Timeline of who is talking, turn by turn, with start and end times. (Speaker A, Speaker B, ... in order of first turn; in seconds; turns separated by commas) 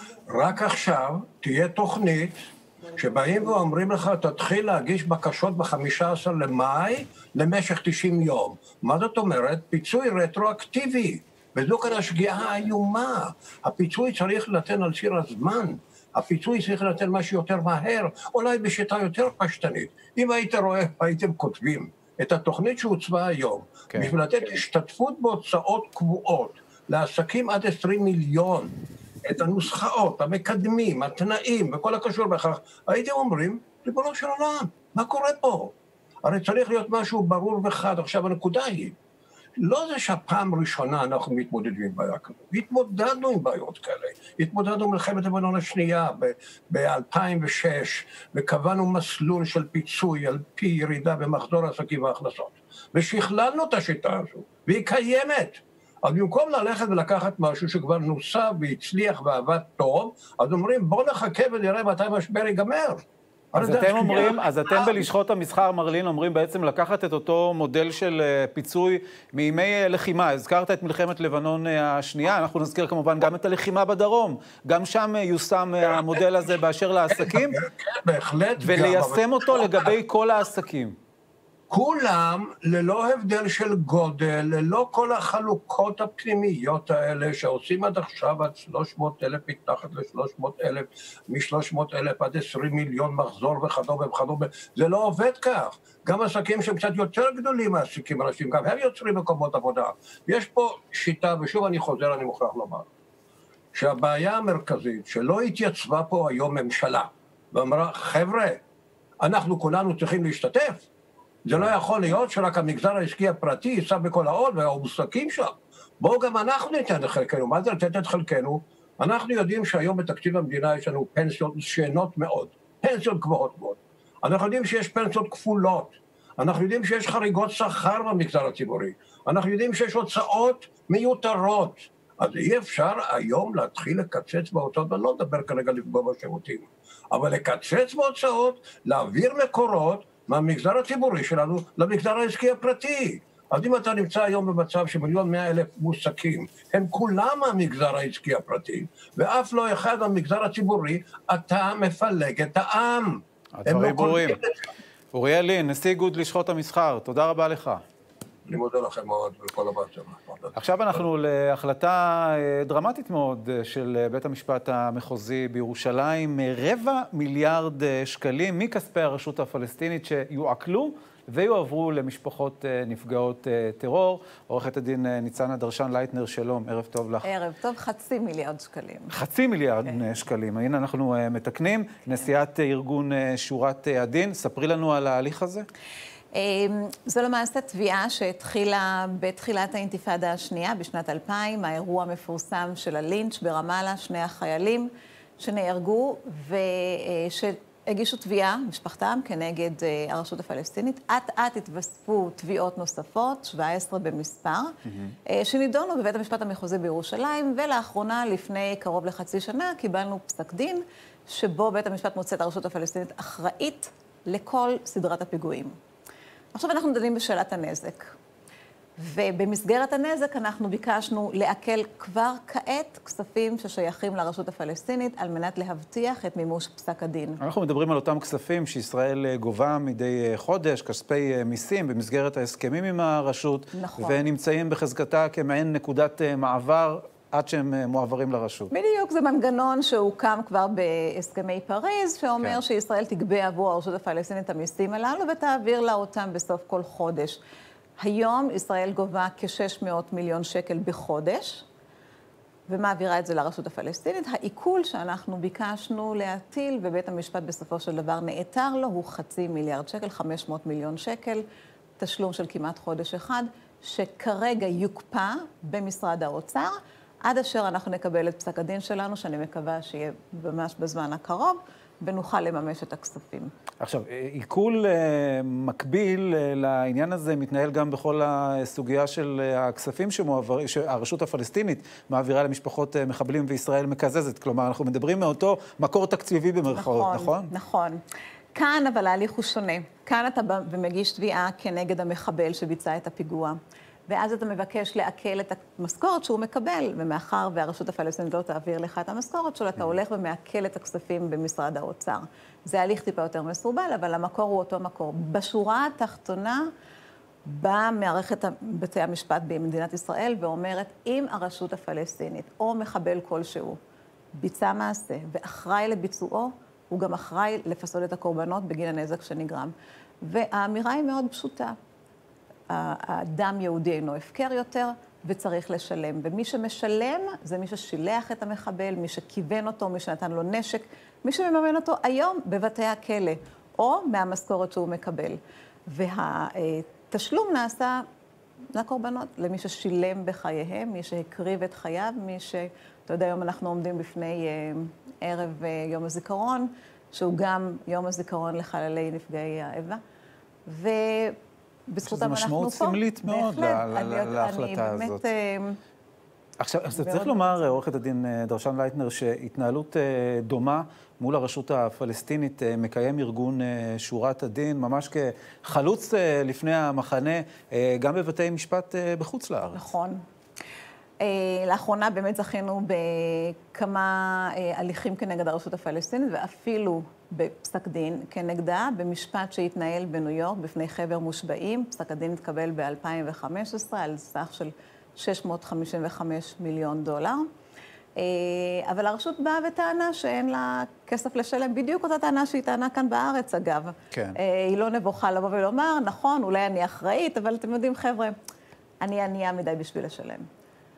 Speaker A: 0.3-28.7, Speaker A: 29.2-39.0, Speaker A: 39.6-65.1, Speaker B: 63.6-77.6, Speaker A: 75.9-76.5, Speaker A: 77.1-79.9, Speaker B: 78.6-81.0, Speaker A: 81.7-102.9, Speaker A: 103.7-108.6, Speaker A: 109.2-110.8, Speaker A: 111.4-154.6, Speaker B: 153.6-154.4, Speaker B: 155.1-157.8, Speaker A: 158.5-161.0, Speaker B: 160.6-177.3, Speaker C: 177.2-179.1, Speaker B: 179.1-185.7, Speaker C: 186.4-194.9, Speaker C: 195.4-204.7, Speaker B: 204.9-205.1, Speaker C: 205.2-215.7, Speaker C: 216.6-218.1, Speaker C: 219.0-227.4, Speaker B: 227.4-238.7, Speaker C: 233.7-234.2, Speaker C: 238.7-247.4, Speaker C: 248.0-251.6, Speaker C: 252.7-261.4, Speaker C: 262.0-266.7, Speaker C: 267.2-273.5, Speaker B: 273.8-287.5, Speaker C: 286.7-288.0, Speaker C: 288.6-293.6, Speaker C: 294.1-306.6, Speaker C: 307.5-313.8, Speaker C: 314.4-319.7, Speaker C: 320.2-321.8, Speaker C: 322.7-335.4, Speaker C: 335.9-338.1, Speaker C: 338.7-350.0, Speaker C: 350.7-351.4, Speaker C: 351.9-355.8, Speaker B: 352.1-355.2, Speaker B: 356.6-369.9, Speaker C: 357.0-357.7, Speaker C: 369.7-370.2, Speaker C: 371.2-387.4, Speaker C: 388.2-398.4, Speaker B: 394.1-394.4, Speaker C: 399.0-400.5